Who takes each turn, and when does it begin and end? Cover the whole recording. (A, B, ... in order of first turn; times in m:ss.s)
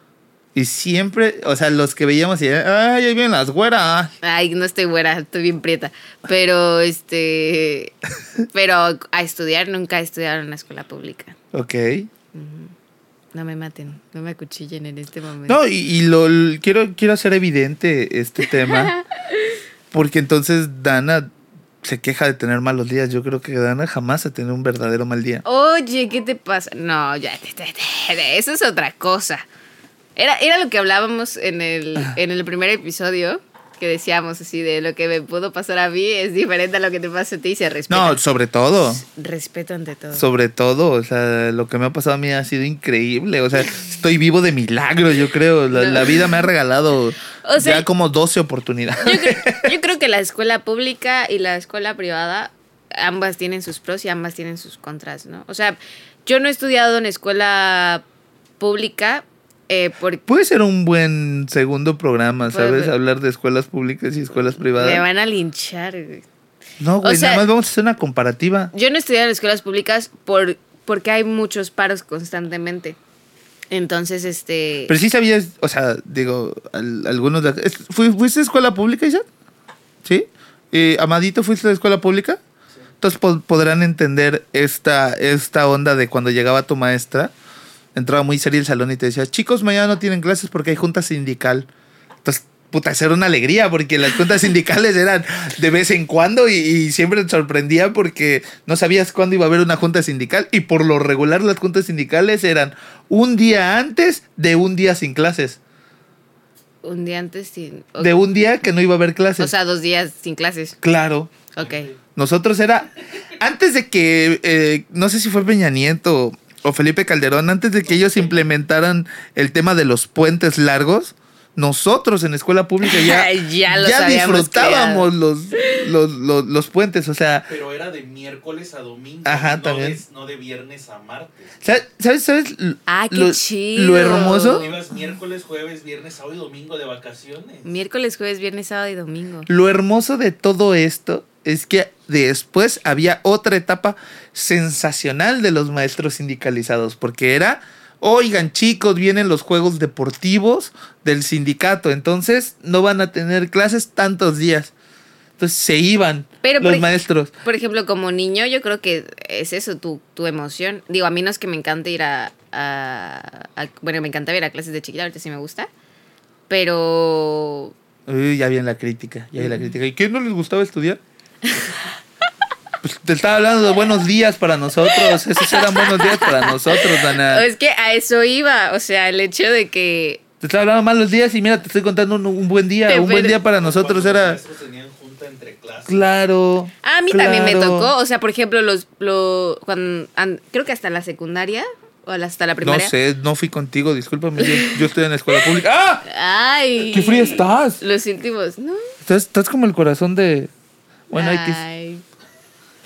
0:00.6-0:04.1 A
0:04.2-0:08.0 B
0:08.5-0:11.4 B
0:11.5-0:12.1 A
0:12.3-0:12.7 B
0:13.3-0:15.6 B
0:15.5-0:19.0 A
0:18.6-0:19.5 B
0:19.9-0:21.3 A
0:21.8-0:25.4 A
0:25.4-0:29.5 B
0:30.2-0:38.2 B
0:37.9-0:39.0 A
0:38.9-0:40.3 B
0:40.1-0:49.7 A
0:45.7-0:46.3 B
0:47.4-0:47.9 B
0:49.0-0:58.0 B
0:58.6-1:00.3 B
1:00.3-1:05.0 A
1:02.5-1:02.9 B
1:04.6-1:06.2 B
1:06.8-1:08.7 A
1:07.0-1:07.5 B
1:08.7-1:13.0 B
1:13.7-1:14.9 B
1:14.9-1:19.2 A
1:20.0-1:22.4 A
1:23.0-1:27.3 A
1:28.0-1:31.7 A
1:32.2-1:45.6 A
1:46.8-1:48.2 B
1:48.0-1:49.5 A
1:49.4-1:50.8 B
1:50.8-1:51.3 A
1:51.6-1:51.9 B
1:51.6-1:51.8 C
1:52.1-2:07.5 A
2:02.8-2:05.1 B
2:07.5-2:11.6 C
2:09.3-2:10.0 A
2:11.6-2:14.7 A
2:12.9-2:14.8 B
2:14.0-2:17.7 C
2:17.6-2:19.5 B
2:19.5-2:34.7 A
2:35.4-2:37.3 A
2:36.4-2:36.9 B
2:37.4-2:45.7 B
2:46.5-2:47.7 B
2:48.1-2:51.0 A
2:51.4-2:51.8 B
2:52.8-2:57.5 A
2:55.0-3:00.2 B
3:00.4-3:04.4 A
3:02.9-3:03.4 B
3:03.3-3:06.1 C
3:05.9-3:07.9 A
3:06.8-3:12.9 B
3:12.6-3:16.0 A
3:14.4-3:14.8 B
3:16.0-3:18.8 B
3:16.9-3:17.8 A
3:19.0-3:20.5 A
3:21.1-3:21.6 A
3:21.1-3:22.0 B